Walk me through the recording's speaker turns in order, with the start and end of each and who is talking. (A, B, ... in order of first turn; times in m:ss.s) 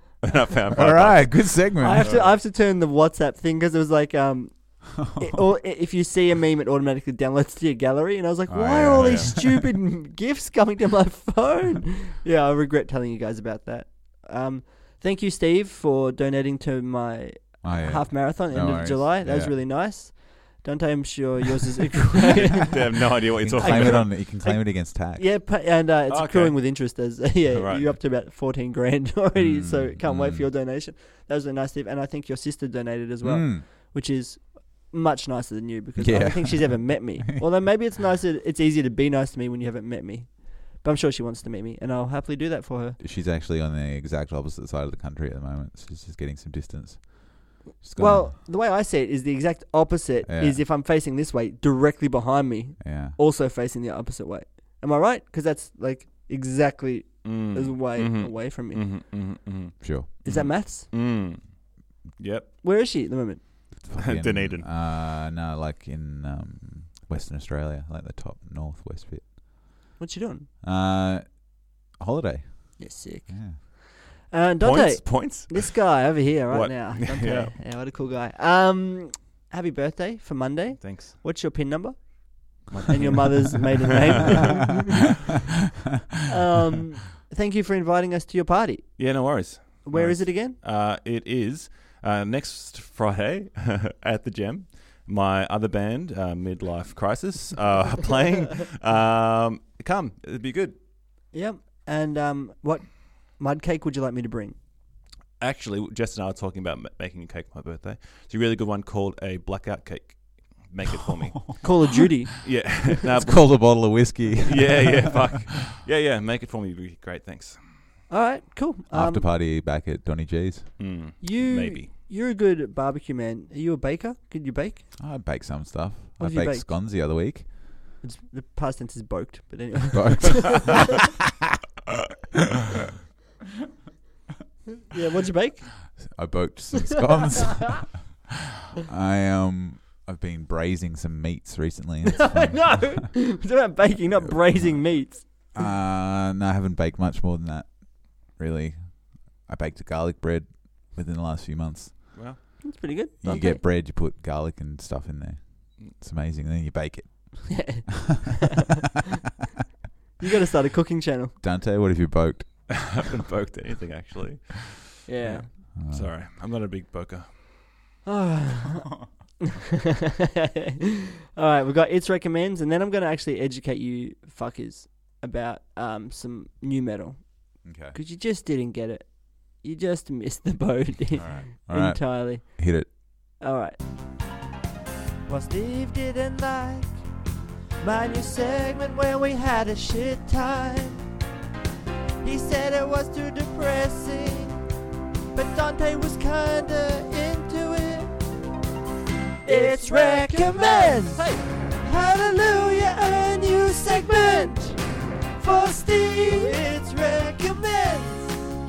0:00.2-0:02.3 A
0:00.7-0:02.1 B
0:01.8-0:23.1 C
0:05.1-0:05.4 B
0:08.5-0:09.7 B
0:09.0-0:09.3 A
0:17.6-0:19.6 B
0:22.4-0:24.2 A
0:23.4-0:25.3 B
0:23.6-0:43.0 C
0:26.1-0:27.0 A
0:27.5-0:28.0 A
0:29.4-0:30.5 B
0:33.2-0:33.6 B
0:36.0-0:37.2 B
0:43.0-0:48.4 B
0:48.0-0:58.8 C
0:50.2-0:50.6 B
0:52.8-0:53.2 B
0:57.2-1:02.5 A
0:59.8-1:00.3 B
1:00.2-1:00.9 C
1:02.6-1:03.6 C
1:03.8-1:09.7 B
1:04.0-1:04.7 A
1:10.0-1:10.5 C
1:10.6-1:13.6 B
1:12.8-1:25.1 C
1:14.6-1:17.6 A
1:20.8-1:21.2 A
1:22.7-1:23.7 A
1:26.3-1:29.1 C
1:29.0-1:40.8 A
1:29.8-1:30.6 C
1:41.3-1:44.6 C
1:45.4-1:51.7 A
1:51.6-1:52.6 C
1:52.4-1:57.6 A
1:53.2-1:55.2 B
1:58.1-1:59.3 C
1:58.9-2:00.8 B
2:00.8-2:01.9 A
2:01.2-2:04.9 C
2:05.0-2:07.6 B
2:06.2-2:06.7 C
2:08.0-2:10.8 C
2:09.9-2:11.0 B
2:14.9-2:15.9 C
2:15.9-2:18.3 B
2:18.8-2:23.0 B
2:22.1-2:25.6 C
2:24.2-2:32.6 B
2:32.1-2:32.4 A
2:32.6-2:33.6 C
2:33.2-2:37.8 B
2:37.5-2:38.4 C
2:40.2-2:41.4 C
2:41.4-2:43.0 B
2:42.7-2:47.3 A
2:45.1-2:45.5 C
2:45.8-2:46.1 B
2:48.0-2:49.4 C
2:50.4-3:03.8 C
2:57.6-2:58.0 B
3:01.2-3:02.9 B
3:05.3-3:07.0 C
3:07.8-3:11.0 C
3:12.2-3:14.6 C
3:15.3-3:18.1 C
3:19.4-3:24.8 C
3:25.4-3:28.4 C